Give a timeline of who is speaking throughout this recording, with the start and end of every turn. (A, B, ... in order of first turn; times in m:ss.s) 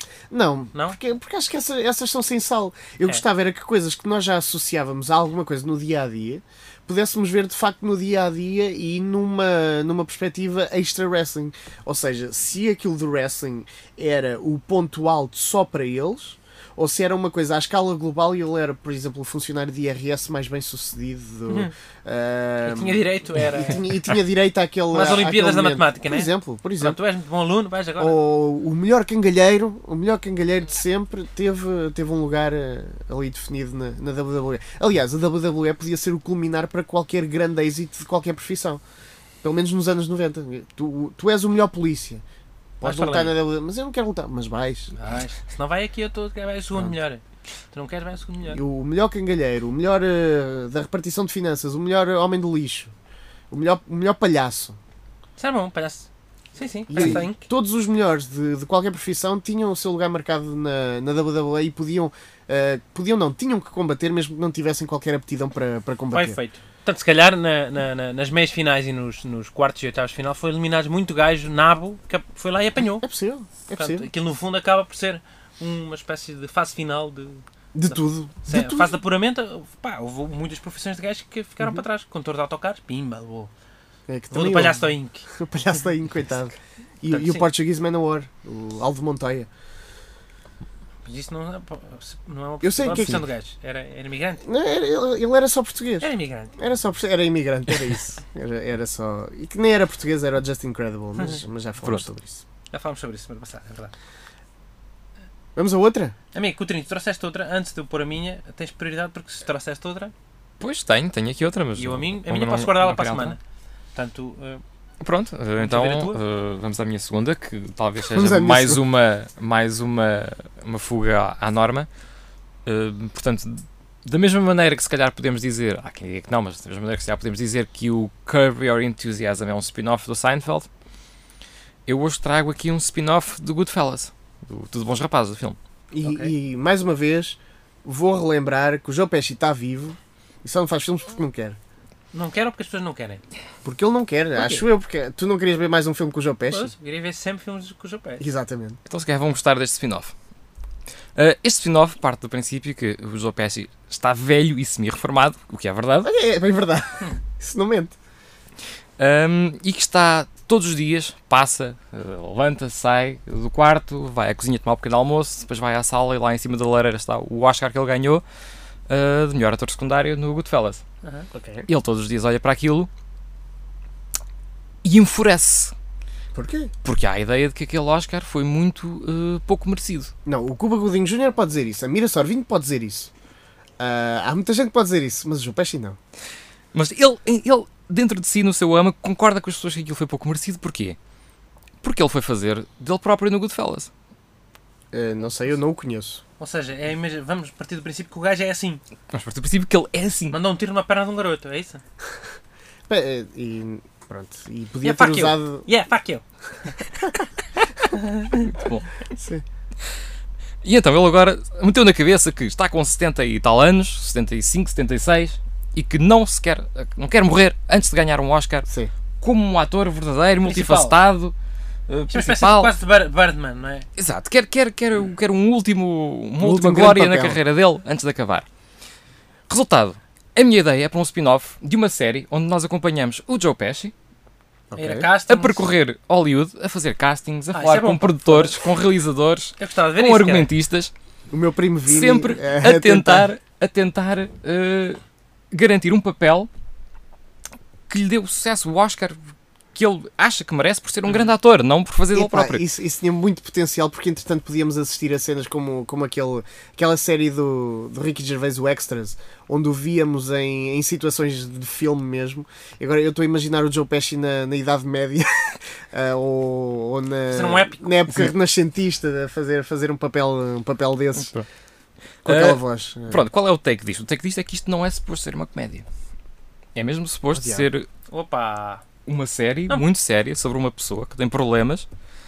0:00.3-0:23.0 A
0:21.5-0:21.7 B
0:22.6-0:24.1 B
0:23.6-0:27.0 A
0:24.9-0:28.2 B
0:28.0-0:38.8 A
0:39.4-0:42.2 A
0:42.8-0:44.9 A
0:42.8-0:43.4 B
0:45.0-0:48.6 B
0:48.5-0:52.9 A
0:53.5-0:54.8 A
0:55.4-0:57.5 B
0:56.9-1:06.4 A
1:06.1-1:13.1 B
1:13.0-1:14.1 A
1:13.8-1:23.5 B
1:17.7-1:19.0 A
1:24.1-1:29.5 A
1:24.3-1:25.3 B
1:27.1-1:27.5 B
1:31.0-1:34.4 B
1:32.6-1:33.2 A
1:32.9-1:33.3 C
1:34.4-1:42.4 A
1:36.0-1:36.6 B
1:42.7-1:43.9 B
1:45.6-1:46.2 A
1:46.3-1:50.1 B
1:50.6-1:53.4 C
1:51.8-1:53.4 B
1:54.0-1:54.6 B
1:55.0-2:01.9 C
1:55.6-1:56.2 B
1:58.1-1:58.8 A
2:02.7-2:10.7 C
2:11.9-2:15.6 C
2:15.9-2:21.6 A
2:16.0-2:16.3 B
2:22.1-2:23.2 B
2:23.6-2:26.7 A
2:24.4-2:24.6 B
2:26.5-2:28.2 B
2:28.2-2:28.8 A
2:28.9-2:30.1 C
2:31.2-2:36.1 C
2:36.0-2:38.0 A
2:39.0-2:48.2 C
2:48.9-2:50.8 C
2:51.0-2:51.3 B
2:51.3-2:51.7 A
2:51.7-2:52.9 C
2:54.8-2:55.7 C
2:56.4-2:56.7 A
2:56.8-3:00.1 C
3:00.2-3:03.1 A
3:03.8-3:06.0 A
3:06.7-3:11.0 C
3:11.8-3:13.9 C
3:14.9-3:16.2 A
3:16.4-3:18.8 B
3:19.1-3:20.4 C
3:20.3-3:21.8 B
3:22.9-3:25.7 A
3:24.8-3:26.8 B
3:27.9-3:28.4 B
3:28.3-3:28.9 C
3:29.1-3:29.4 A
3:30.6-3:38.7 C
3:39.2-3:41.3 C
3:40.4-3:41.0 B
3:41.9-3:42.8 C
3:42.1-3:43.9 B
3:44.0-3:48.5 C
3:46.4-3:47.4 A
3:49.5-3:53.9 C
3:54.7-3:55.1 A
3:54.8-3:55.6 B
3:55.3-4:00.9 C
3:57.5-3:58.6 B
3:59.6-4:00.5 B
4:01.3-4:03.3 A
4:01.9-4:05.0 C
4:05.5-4:06.5 C
4:07.9-4:09.2 C
4:09.8-4:12.6 C
4:11.1-4:11.3 B
4:12.1-4:31.3 A
4:27.3-4:28.0 B
4:31.2-4:31.5 C
4:32.2-4:33.2 A
4:32.2-4:35.8 C
4:36.8-4:37.9 C
4:37.3-4:37.7 A
4:38.1-4:38.8 B
4:39.1-4:41.9 C